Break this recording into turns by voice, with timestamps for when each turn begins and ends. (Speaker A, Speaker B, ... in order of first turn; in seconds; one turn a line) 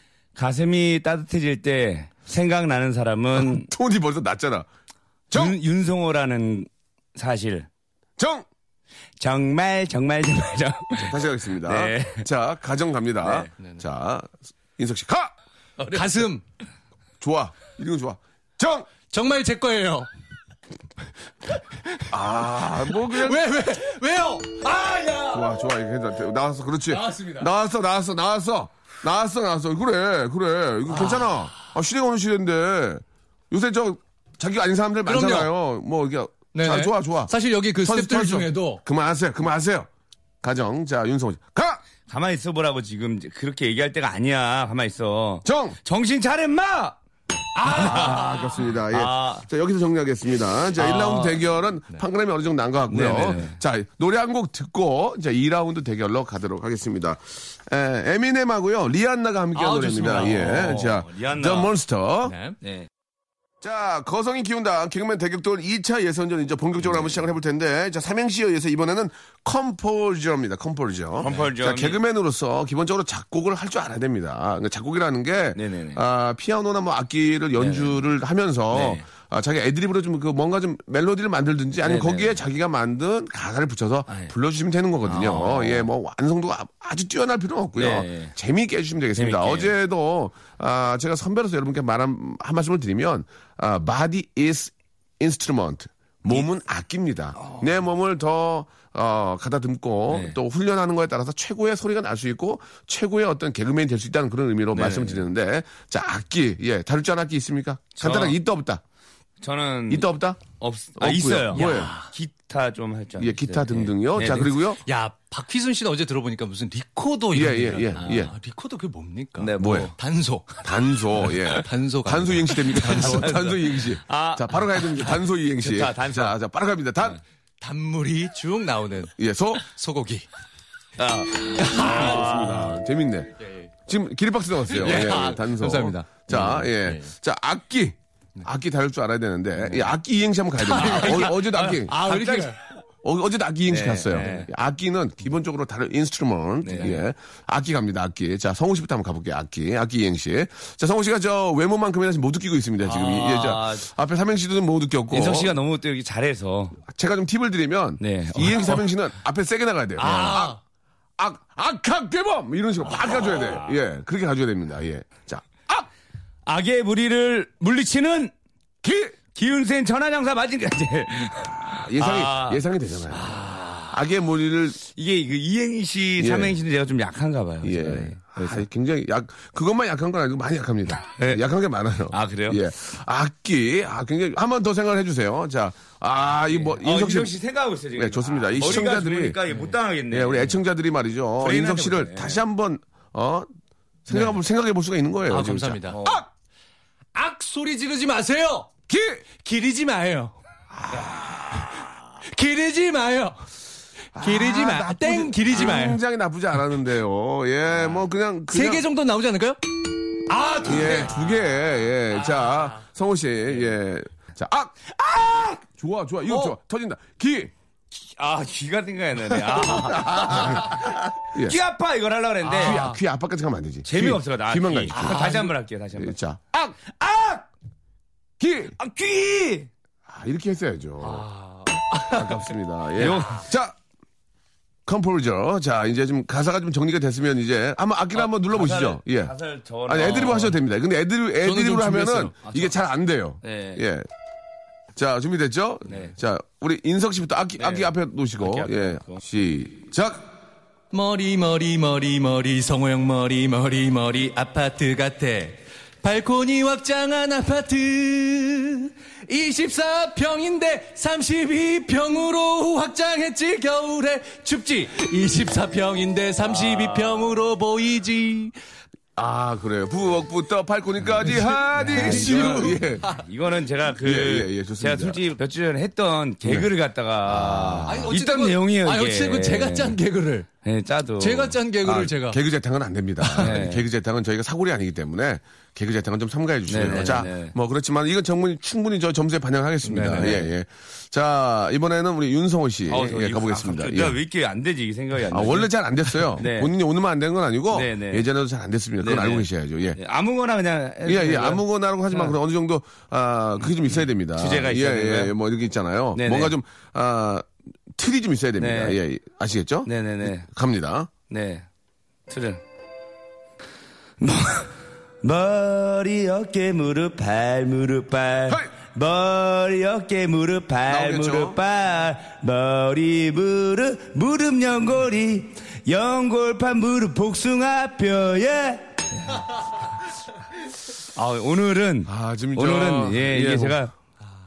Speaker A: 0.3-3.7
Speaker B: 3.3-4.7
Speaker B: 5.3-5.5
Speaker A: 5.3-7.7
Speaker B: 8.2-8.4
Speaker A: 9.2-12.3
Speaker B: 11.0-15.3
Speaker A: 13.2-13.5
Speaker C: 15.8-16.4
Speaker B: 17.2-18.9
Speaker C: 19.1-20.1
Speaker C: 21.6-25.5
Speaker B: 22.1-23.4
Speaker B: 25.3-39.9
Speaker C: 26.9-27.5
Speaker C: 30.9-31.4
Speaker C: 35.0-35.5
Speaker C: 36.5-38.8
Speaker B: 40.4-41.8
Speaker A: 42.1-47.0
Speaker B: 45.4-45.8
Speaker C: 47.6-48.3
Speaker A: 47.6-49.4
Speaker B: 47.7-62.3
Speaker A: 50.7-51.4
Speaker A: 52.9-53.6
Speaker C: 59.5-60.8
Speaker A: 60.1-61.7
Speaker C: 62.2-62.6
Speaker A: 62.6-62.9
Speaker B: 63.6-108.8
Speaker A: 66.8-67.1
Speaker A: 71.2-72.0
Speaker C: 71.2-71.5
Speaker A: 75.5-76.0
Speaker A: 77.5-78.0
Speaker A: 78.7-79.0
Speaker A: 81.8-82.4
Speaker A: 85.0-85.9
Speaker A: 87.8-88.3
Speaker A: 89.2-89.7
Speaker A: 97.4-97.7
Speaker A: 100.1-100.3
Speaker A: 104.7-105.2
Speaker A: 108.0-108.3
Speaker A: 109.4-110.1
Speaker B: 109.9-110.4
Speaker A: 110.6-114.5
Speaker B: 111.0-111.9
Speaker C: 111.5-112.1
Speaker B: 113.2-114.8
Speaker C: 114.2-123.4
Speaker B: 117.3-118.3
Speaker A: 119.4-119.9
Speaker B: 119.6-119.9
Speaker B: 120.6-127.2
Speaker A: 122.8-126.3
Speaker C: 127.6-130.3
Speaker B: 129.2-129.6
Speaker A: 131.0-132.7
Speaker C: 131.6-132.5
Speaker B: 131.6-133.3
Speaker C: 133.4-133.7
Speaker B: 133.8-142.0
Speaker C: 134.8-137.1
Speaker A: 136.3-136.6
Speaker C: 140.6-142.6
Speaker A: 140.7-142.6
Speaker B: 143.0-155.5
Speaker A: 143.7-144.5
Speaker C: 144.1-144.5
Speaker A: 146.6-147.0
Speaker A: 152.8-153.8
Speaker A: 155.1-156.8
Speaker B: 156.8-160.6
Speaker A: 158.0-158.8
Speaker C: 160.0-160.6
Speaker B: 161.2-165.9
Speaker A: 162.9-163.7
Speaker A: 166.4-168.3
Speaker B: 168.8-169.1
Speaker A: 169.3-174.0
Speaker B: 171.6-173.3
Speaker B: 173.9-174.8
Speaker A: 174.8-178.6
Speaker B: 176.2-176.6
Speaker B: 177.6-187.3
Speaker A: 181.2-181.4
Speaker A: 182.1-182.6
Speaker A: 186.5-190.6
Speaker B: 187.9-189.4
Speaker C: 189.5-189.8
Speaker B: 190.1-193.5
Speaker A: 191.4-192.4
Speaker B: 194.1-196.2
Speaker C: 194.1-194.4
Speaker C: 195.3-196.0
Speaker A: 195.9-196.2
Speaker C: 197.1-198.7
Speaker B: 198.9-199.2
Speaker C: 199.4-200.4
Speaker B: 200.7-201.8
Speaker C: 201.5-203.4
Speaker B: 204.1-208.8
Speaker C: 204.2-206.0
Speaker C: 208.5-209.6
Speaker C: 210.3-211.2
Speaker B: 210.6-214.7
Speaker C: 212.2-212.8
Speaker A: 214.9-215.6
Speaker B: 215.6-217.5
Speaker A: 218.1-222.9
Speaker B: 219.3-220.8
Speaker B: 221.3-221.6
Speaker C: 222.4-223.0
Speaker B: 222.5-225.3
Speaker A: 223.8-226.2
Speaker C: 224.9-225.5
Speaker B: 226.0-226.7
Speaker A: 226.8-227.5
Speaker B: 228.4-228.7
Speaker A: 228.8-229.7
Speaker B: 230.1-231.2
Speaker C: 231.0-232.4
Speaker B: 232.1-233.8
Speaker A: 233.0-233.4
Speaker B: 234.8-239.3
Speaker A: 238.1-240.5
Speaker B: 239.9-244.1
Speaker C: 240.0-240.5
Speaker C: 241.4-242.8
Speaker A: 243.4-243.8
Speaker B: 244.9-250.2
Speaker A: 248.4-249.2
Speaker C: 250.9-268.6
Speaker B: 269.1-273.1
Speaker C: 271.2-273.2
Speaker A: 271.8-280.0
Speaker B: 274.0-275.2
Speaker B: 276.4-276.7
Speaker B: 277.2-278.1
Speaker C: 277.9-280.5
Speaker A: 280.6-281.6
Speaker C: 281.2-282.4
Speaker B: 281.9-294.2
Speaker C: 283.2-283.6
Speaker A: 283.4-283.8
Speaker A: 286.7-287.5
Speaker C: 286.8-287.3
Speaker C: 289.8-290.4
Speaker A: 290.1-290.5
Speaker A: 292.9-295.7
Speaker B: 295.3-300.0
Speaker A: 296.4-296.7
Speaker A: 297.7-298.2
Speaker A: 299.0-302.3
Speaker B: 301.0-311.1
Speaker A: 304.3-305.3
Speaker A: 306.1-306.5
Speaker A: 308.6-309.0
Speaker A: 309.9-310.4
Speaker A: 311.3-311.6
Speaker A: 312.3-312.6
Speaker A: 314.2-329.6
Speaker B: 320.9-321.6
Speaker A: 331.1-333.9
Speaker B: 332.1-333.8